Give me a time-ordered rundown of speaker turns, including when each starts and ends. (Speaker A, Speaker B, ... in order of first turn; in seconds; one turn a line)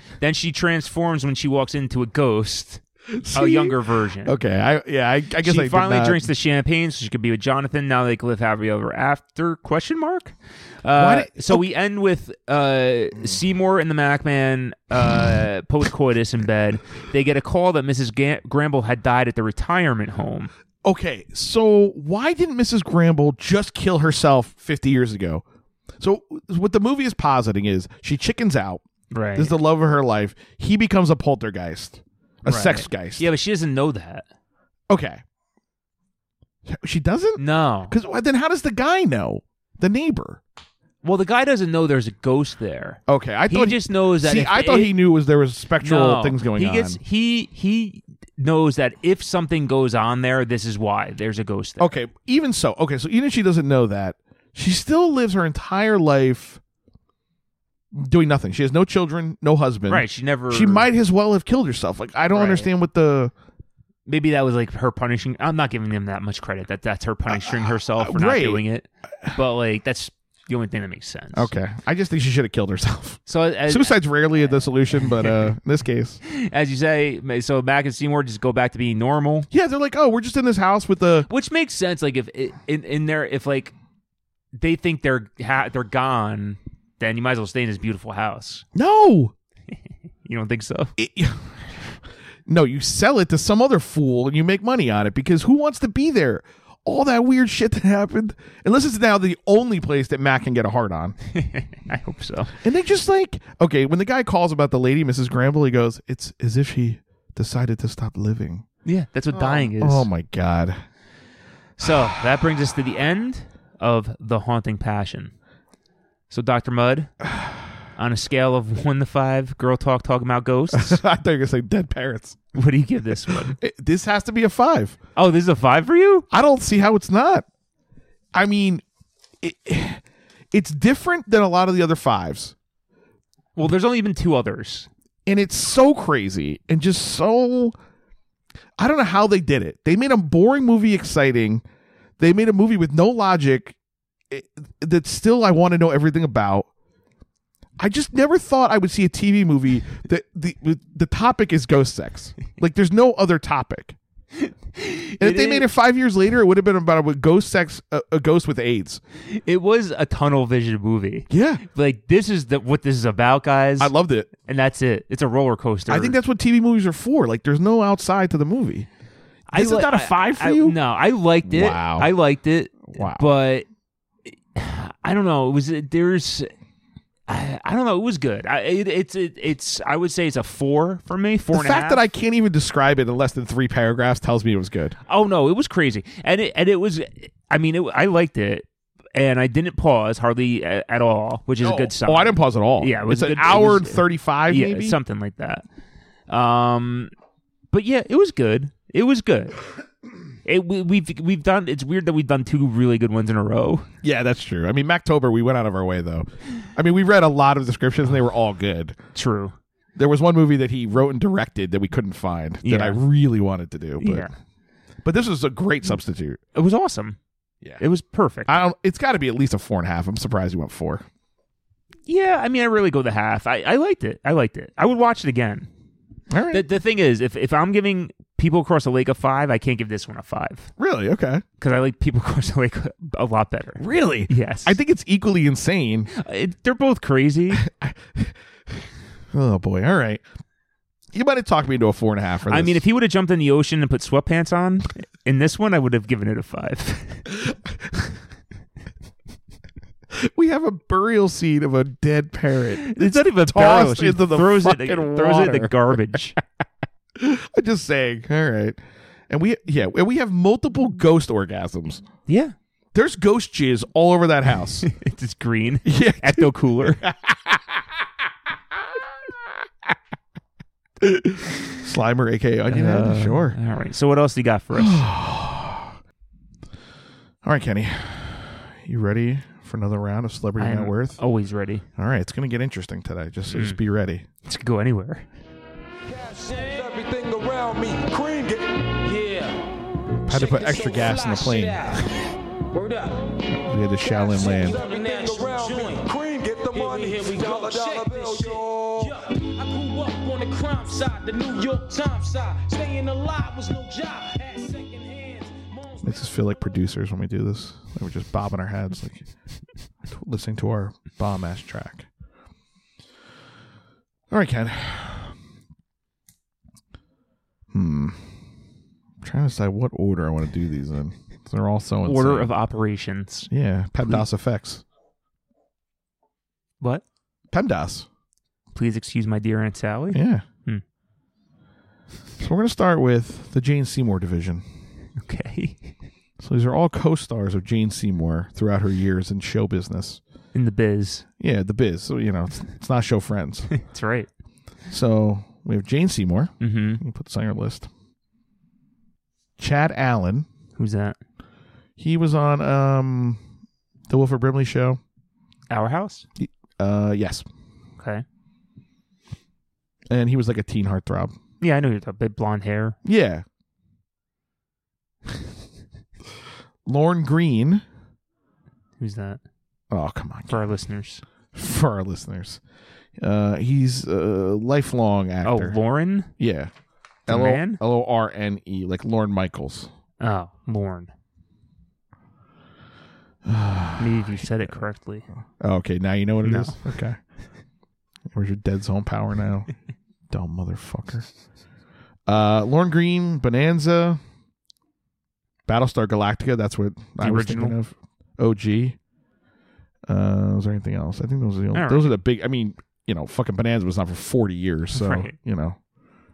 Speaker A: 0.2-2.8
Speaker B: 3.1-6.3
Speaker A: 3.3-4.4
Speaker A: 5.4-20.5
Speaker B: 10.9-11.7
Speaker B: 20.8-25.4
Speaker B: 26.0-28.8
Speaker A: 29.1-29.6
Speaker B: 29.4-33.3
Speaker A: 32.5-34.2
Speaker B: 34.9-35.2
Speaker B: 36.7-40.4
Speaker A: 37.4-38.0
Speaker A: 41.0-45.0
Speaker B: 43.1-47.0
Speaker A: 45.8-52.0
Speaker B: 51.8-56.6
Speaker B: 57.9-63.3
Speaker A: 59.9-60.9
Speaker A: 62.3-62.7
Speaker A: 64.1-71.5
Speaker B: 67.3-68.6
Speaker B: 71.3-76.2
Speaker A: 73.3-75.5
Speaker A: 76.3-79.5
Speaker B: 79.5-81.3
Speaker A: 81.3-83.7
Speaker A: 84.6-88.6
Speaker B: 88.8-89.3
Speaker A: 90.2-90.9
Speaker B: 91.0-91.5
Speaker B: 92.5-101.2
Speaker A: 101.4-102.6
Speaker B: 102.6-108.7
Speaker A: 108.8-110.1
Speaker B: 109.3-110.8
Speaker A: 111.8-115.3
Speaker A: 116.3-117.1
Speaker A: 118.0-121.0
Speaker B: 120.7-122.4
Speaker A: 122.5-123.6
Speaker B: 123.3-125.0
Speaker A: 125.2-126.3
Speaker B: 126.3-127.5
Speaker B: 128.3-128.8
Speaker B: 129.4-132.6
Speaker A: 133.6-134.9
Speaker B: 135.3-137.8
Speaker B: 138.8-141.6
Speaker B: 142.2-143.8
Speaker B: 144.3-146.7
Speaker B: 147.8-154.0
Speaker A: 154.4-155.7
Speaker B: 155.2-159.0
Speaker A: 159.3-163.9
Speaker B: 161.3-161.6
Speaker B: 163.8-164.3
Speaker A: 164.5-166.2
Speaker B: 165.9-168.9
Speaker B: 169.5-170.8
Speaker A: 169.5-173.7
Speaker B: 171.4-172.1
Speaker B: 172.9-173.2
Speaker A: 174.6-176.5
Speaker A: 177.3-182.0
Speaker B: 181.5-185.0
Speaker A: 185.1-195.7
Speaker B: 191.6-195.0
Speaker A: 196.3-197.1
Speaker A: 197.7-199.6
Speaker A: 200.4-203.9
Speaker B: 204.0-209.0
Speaker A: 209.2-209.5
Speaker B: 210.0-214.3
Speaker A: 212.6-213.0
Speaker A: 214.0-214.3
Speaker B: 215.0-216.4
Speaker A: 216.6-217.2
Speaker A: 217.8-218.6
Speaker B: 218.5-221.1
Speaker A: 222.1-225.7
Speaker B: 226.3-226.7
Speaker A: 226.5-230.7
Speaker B: 230.8-231.4
Speaker A: 231.6-234.8
Speaker B: 233.8-236.1
Speaker A: 236.1-237.7
Speaker B: 237.5-238.3
Speaker B: 239.3-240.2
Speaker B: 241.1-242.8
Speaker A: 242.5-247.3
Speaker B: 250.1-255.9
Speaker A: 252.8-256.4
Speaker B: 257.2-262.1
Speaker A: 262.3-262.6
Speaker B: 262.9-264.9
Speaker A: 264.8-267.0
Speaker B: 265.9-267.9
Speaker B: 271.0-273.6
Speaker A: 272.7-275.1
Speaker B: 274.7-276.0
Speaker B: 277.4-281.2
Speaker A: 280.6-281.9
Speaker B: 282.0-284.3
Speaker A: 283.5-283.8
Speaker A: 284.4-285.3
Speaker C: 286.1-288.9
Speaker D: 289.0-289.6
Speaker D: 290.2-293.3
Speaker B: 290.3-291.8
Speaker B: 293.5-294.8
Speaker D: 294.0-296.1
Speaker C: 294.6-299.1
Speaker D: 296.7-306.8
Speaker B: 306.0-309.3
Speaker B: 310.1-312.1
Speaker B: 314.3-315.4
Speaker B: 317.7-318.3
Speaker B: 319.2-322.5
Speaker A: 322.0-323.5
Speaker B: 323.5-324.8
Speaker B: 327.5-328.1
Speaker A: 328.7-330.8
Speaker B: 330.1-330.4
Speaker B: 332.4-334.6
Speaker A: 335.2-335.9
Speaker B: 336.4-340.2
Speaker A: 340.5-341.3
Speaker B: 341.4-343.7
Speaker A: 343.8-344.3
Speaker B: 344.9-347.9
Speaker A: 346.6-347.0
Speaker B: 349.6-350.5
Speaker A: 350.8-351.2
Speaker B: 352.0-353.4
Speaker B: 354.1-355.0
Speaker A: 355.7-356.2
Speaker B: 356.4-357.5
Speaker A: 358.0-358.2
Speaker B: 360.1-361.4
Speaker A: 361.6-363.0
Speaker B: 363.1-363.4
Speaker B: 366.9-367.8
Speaker A: 369.0-369.4
Speaker B: 369.9-370.6
Speaker A: 370.5-371.2
Speaker B: 371.5-372.6
Speaker B: 373.2-375.8
Speaker A: 375.4-376.3
Speaker B: 376.4-376.7
Speaker B: 377.3-379.9
Speaker A: 377.3-377.8
Speaker A: 380.2-381.1
Speaker B: 383.5-384.5
Speaker A: 384.0-385.3
Speaker B: 385.6-387.2
Speaker A: 386.4-386.8
Speaker B: 388.3-389.7
Speaker B: 390.3-391.3
Speaker B: 392.3-394.2
Speaker B: 395.7-399.0
Speaker A: 397.2-397.8
Speaker B: 400.1-405.8
Speaker A: 401.7-402.1
Speaker A: 404.9-405.3